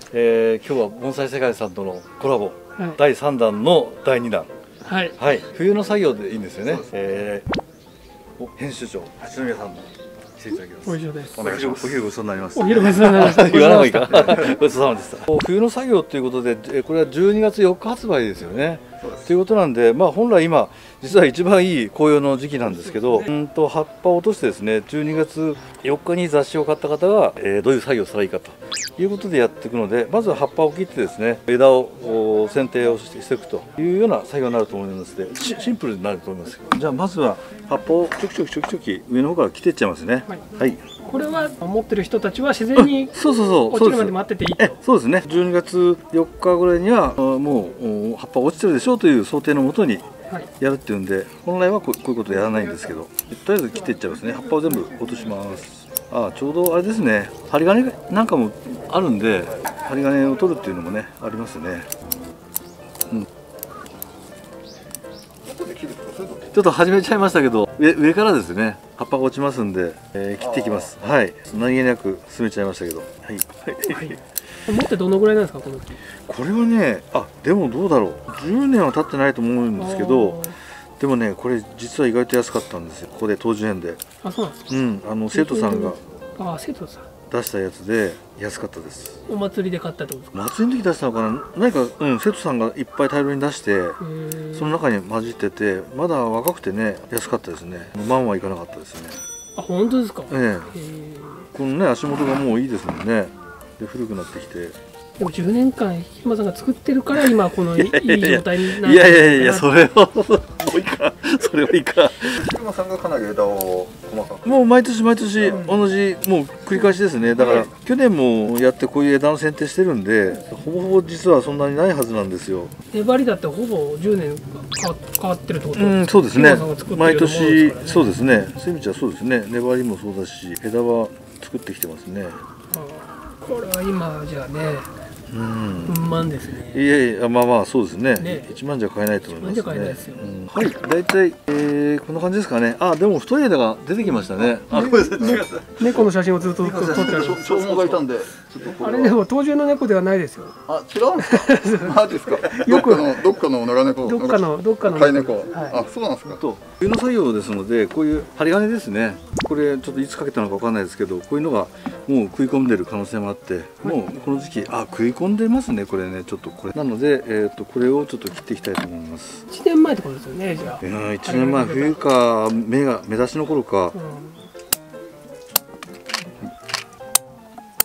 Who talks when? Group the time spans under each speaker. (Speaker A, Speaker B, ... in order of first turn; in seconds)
Speaker A: 0.1-4.5, 5.2-7.5, 8.4-40.8, 42.8-50.1, 50.6-61.9, 66.5-74.2, 76.2-80.5, 81.0-84.0, 84.7-86.0, 87.3-89.2, 90.3-94.0, 94.5-99.2, 100.3-100.7, 101.5-104.8, 107.1-112.4, 114.4-122.7, 125.7-132.4, 135.3-136.2, 136.7-148.8, 156.2-169.4, 170.8-173.9
Speaker B: 4.8-5.2, 10.8-11.5, 12.5-14.5, 41.0-44.8, 73.9-74.2, 74.7-76.0, 79.8-80.6, 84.2-84.7, 85.3-87.1, 89.3-90.3, 94.0-94.8, 99.5-101.5, 105.2-109.7, 115.5-115.9, 122.9-128.2, 132.7-134.9, 135.8-136.8, 138.2-138.5, 139.2-140.3, 144.0-147.4, 148.8-150.6, 151.2-153.2, 154.0-155.8, 169.5-172.1, 173.9-174.5
Speaker C: 11.3-12.1, 14.1-14.4, 19.0-19.3, 65.4-66.6, 70.4-71.0, 112.2-114.7, 115.3-115.7, 145.2-145.4, 146.8-149.2, 150.7-156.4